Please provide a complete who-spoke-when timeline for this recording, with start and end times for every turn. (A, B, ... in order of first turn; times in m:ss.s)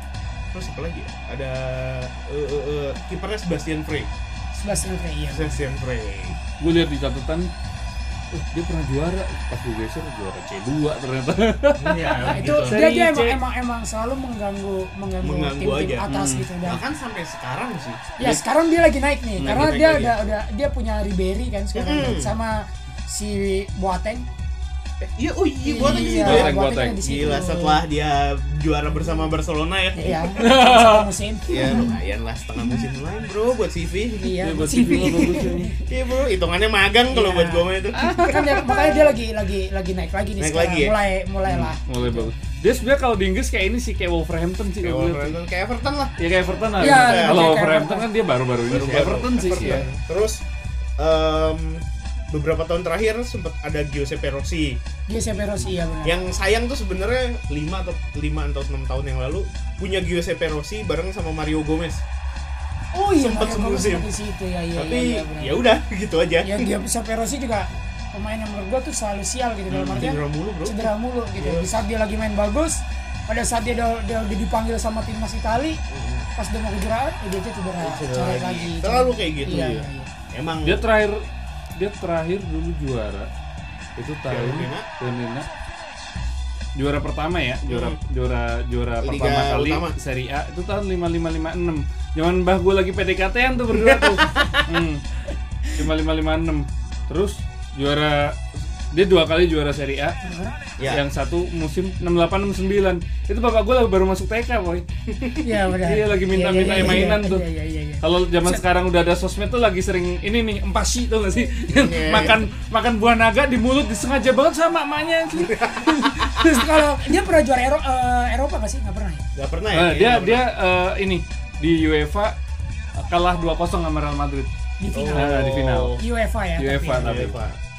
0:00.5-0:04.1 A
0:04.5-0:05.6 B
0:05.3-0:06.4 A
0:06.6-0:07.5 C
0:08.3-0:13.4 C
0:11.8-0:12.8 A
0:12.3-0:16.8 B
0:15.2-0:16.0 A
0:16.1-0:16.5 C
0:16.6-0:18.0 A
0:18.2-0:24.2 B
0:19.4-0:19.7 C
0:19.4-0:20.1 A
0:21.7-0:22.3 A
0:25.0-0:30.4 A
0:25.6-0:27.8 B
0:25.8-0:27.2 C
0:30.0-0:32.0 B
0:30.4-0:31.0 C
0:31.5-0:38.8 A
0:34.2-0:35.8 B
0:34.4-0:35.7 C
0:37.1-0:42.3 B
0:40.4-0:40.9 A
0:41.5-0:45.4 C
0:44.8-0:46.1 A
0:46.2-0:49.8 C
0:46.8-0:47.5 A
0:46.8-0:48.0 B
0:48.7-0:50.4 A
0:49.6-0:49.9 B
0:51.0-0:54.8 A
0:55.1-0:56.2 B
0:56.0-1:02.0 A
1:02.9-1:05.6 B
1:03.1-1:04.0 A
1:04.7-1:06.7 A
1:06.4-1:15.8 B
1:09.7-1:11.8 A
1:15.9-1:16.3 A
1:16.4-1:20.1 B
1:17.8-1:19.7 A
1:19.5-1:19.8 C
1:20.3-1:20.8 A
1:20.6-1:21.2 C
1:21.8-1:23.3 C
1:24.0-1:25.5 C
1:24.3-1:24.9 A
1:26.8-1:35.0 C
1:27.7-1:28.0 A
1:29.0-1:29.9 A
1:33.7-1:34.6 A
1:35.7-1:38.4 C
1:38.9-1:40.2 C
1:40.2-1:40.5 B
1:40.9-1:44.8 C
1:45.1-1:45.4 A
1:45.4-1:48.6 B
1:45.8-1:47.4 C
1:46.6-1:47.0 A
1:48.0-1:56.6 C
1:51.7-1:52.4 A
1:55.5-1:56.3 A
1:56.4-1:59.2 B
1:59.4-2:00.4 A
1:59.7-2:02.3 C
2:03.0-2:04.5 C
2:04.8-2:05.3 B
2:04.9-2:06.0 A
2:05.1-2:06.0 C
2:06.0-2:07.2 B
2:06.6-2:07.4 C
2:07.0-2:07.6 A